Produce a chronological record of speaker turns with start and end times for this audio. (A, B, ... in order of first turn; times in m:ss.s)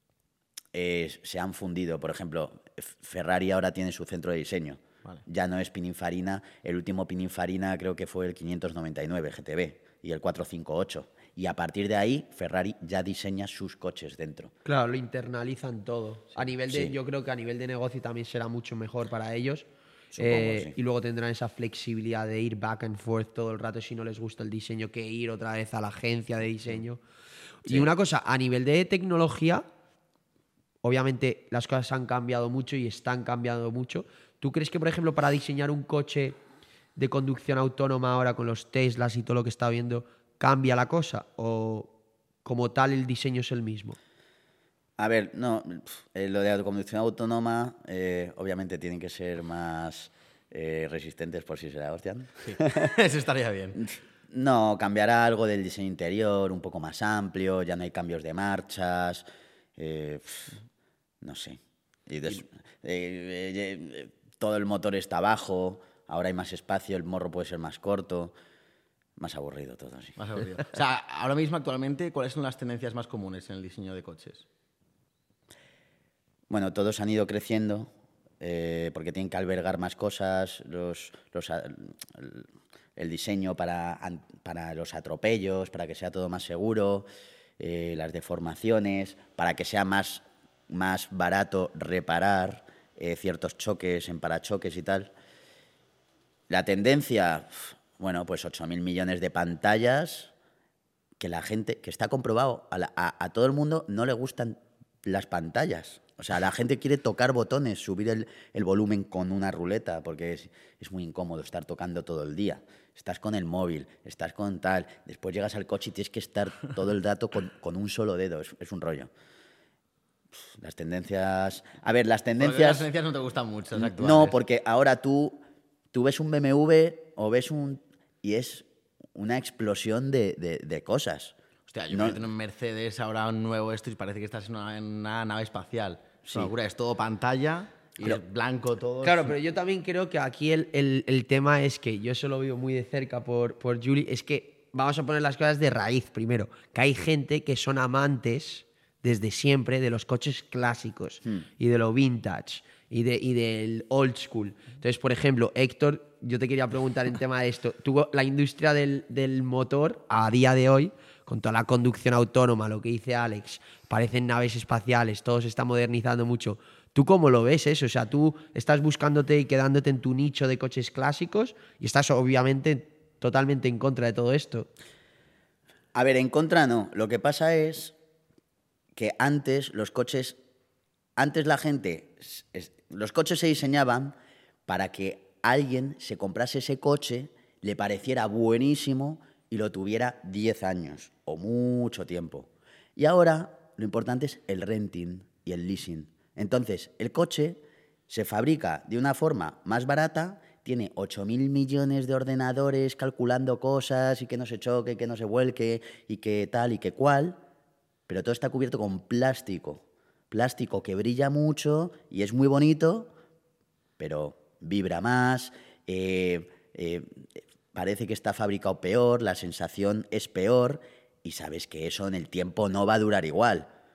0:00.7-0:14.5 A
0:14.6-0:19.6 B
0:16.7-0:16.9 A
0:20.1-0:20.7 A
0:20.2-0:27.0 B
0:27.6-0:29.6 B
0:30.8-0:36.4 B
0:37.0-0:41.9 B
0:42.4-0:44.0 B
0:45.0-0:52.9 A
0:52.4-0:53.8 C
0:53.8-0:59.2 A
0:59.8-1:00.6 A
1:01.2-1:08.3 A
1:09.2-1:10.2 A
1:10.2-1:14.4 C
1:16.5-1:27.1 A
1:27.6-1:35.1 A
1:36.5-1:40.3 A
1:41.2-1:59.1 A
2:00.6-2:02.9 A
2:02.4-2:04.4 C
2:03.8-2:05.4 A
2:05.9-2:11.3 A
2:11.7-2:19.4 C
2:11.9-2:12.2 A
2:16.2-2:16.5 A
2:19.0-2:54.7 B
2:55.9-2:57.9 A
2:59.0-3:00.4 A
3:01.2-3:04.1 A
3:04.7-3:27.4 A
3:28.1-3:33.1 A
3:34.0-3:43.7 A